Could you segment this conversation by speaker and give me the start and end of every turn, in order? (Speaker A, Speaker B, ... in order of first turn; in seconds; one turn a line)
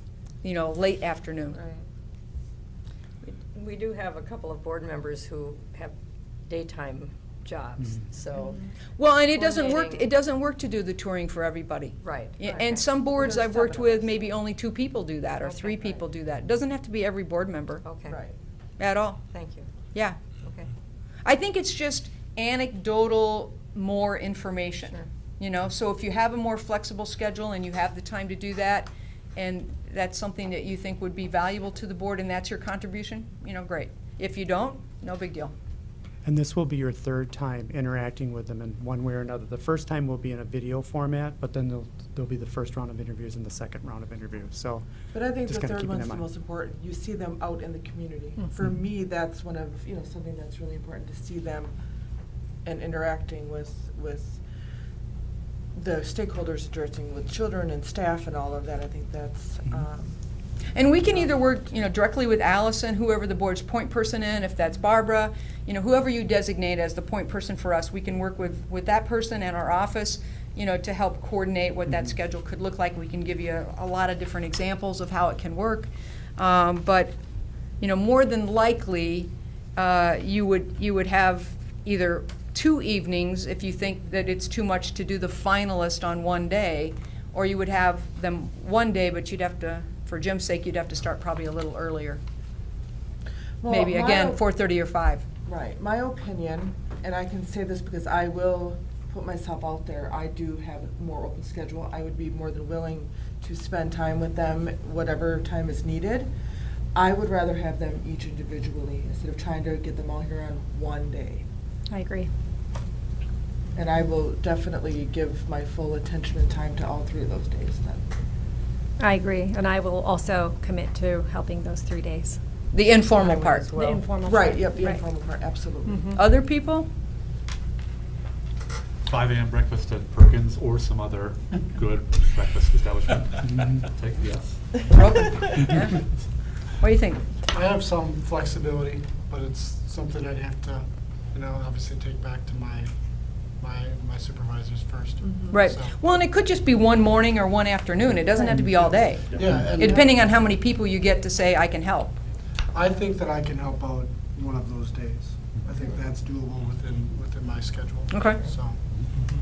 Speaker A: 0.4-1.6
Speaker B: 1.5-1.8
Speaker B: 3.2-6.0
Speaker B: 6.5-8.6
Speaker A: 9.0-17.9
Speaker B: 9.3-10.1
Speaker B: 12.0-13.0
Speaker C: 12.5-14.3
Speaker B: 15.4-16.0
Speaker B: 17.9-18.2
Speaker C: 18.1-18.4
Speaker A: 18.8-19.2
Speaker B: 19.3-19.7
Speaker A: 19.9-20.2
Speaker B: 20.4-20.7
Speaker A: 21.2-35.5
Speaker D: 36.2-44.9
Speaker C: 45.1-51.7
Speaker D: 45.4-46.2
Speaker C: 52.6-54.4
Speaker C: 55.8-60.2
Speaker A: 60.8-77.1
Speaker A: 77.8-92.2
Speaker C: 93.6-94.4
Speaker A: 93.7-95.2
Speaker C: 95.5-106.3
Speaker C: 106.9-111.5
Speaker E: 111.9-112.3
Speaker C: 113.8-118.0
Speaker E: 119.0-122.4
Speaker A: 122.7-123.7
Speaker B: 123.1-124.0
Speaker E: 123.8-125.0
Speaker C: 124.2-126.1
Speaker E: 125.9-126.2
Speaker A: 126.1-126.9
Speaker F: 129.1-134.9
Speaker A: 134.9-136.0
Speaker A: 136.8-137.2
Speaker G: 137.5-146.0
Speaker C: 145.2-145.6
Speaker A: 145.5-152.2
Speaker G: 149.3-150.1
Speaker G: 152.7-158.8
Speaker A: 158.1-158.4